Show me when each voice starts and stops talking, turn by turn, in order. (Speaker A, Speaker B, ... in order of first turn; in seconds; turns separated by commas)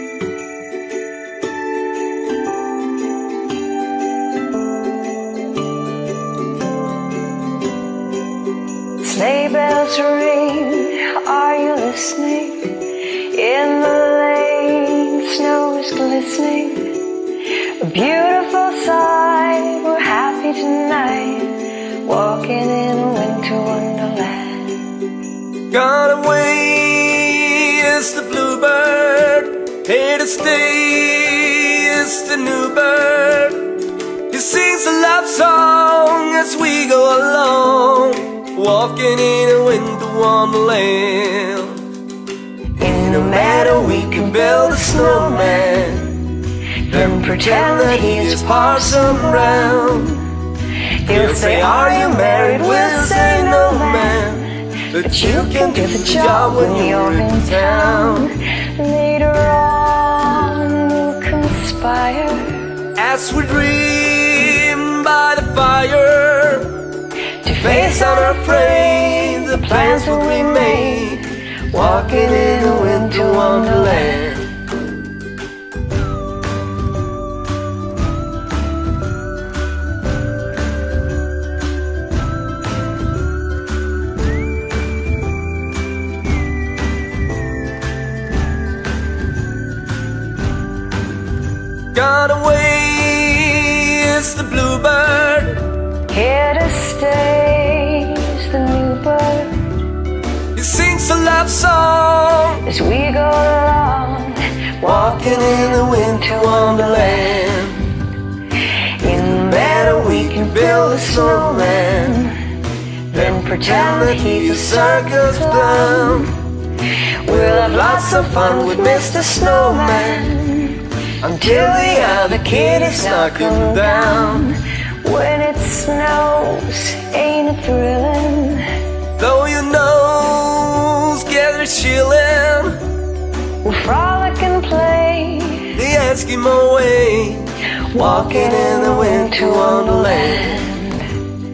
Speaker A: 9.0-17.1, Speaker A: 17.8-25.0, Speaker B: 25.7-33.8, Speaker B: 34.3-41.8, Speaker A: 42.8-45.8, Speaker B: 42.8-46.3, Speaker A: 46.8-50.1, Speaker B: 46.9-50.3, Speaker A: 51.0-62.9, Speaker B: 51.1-58.3, Speaker B: 63.0-66.8, Speaker A: 67.4-74.3, Speaker B: 67.6-74.5, Speaker B: 91.9-95.7, Speaker A: 96.1-99.7, Speaker B: 100.5-102.7, Speaker A: 102.6-107.6, Speaker B: 104.8-107.9, Speaker A: 108.7-112.5, Speaker B: 109.2-112.3, Speaker A: 113.1-116.4, Speaker B: 113.1-116.3, Speaker A: 117.2-128.7, Speaker B: 117.3-120.3, Speaker B: 121.2-124.5, Speaker B: 129.2-132.8, Speaker A: 133.6-135.8, Speaker B: 135.7-140.7, Speaker A: 137.8-141.2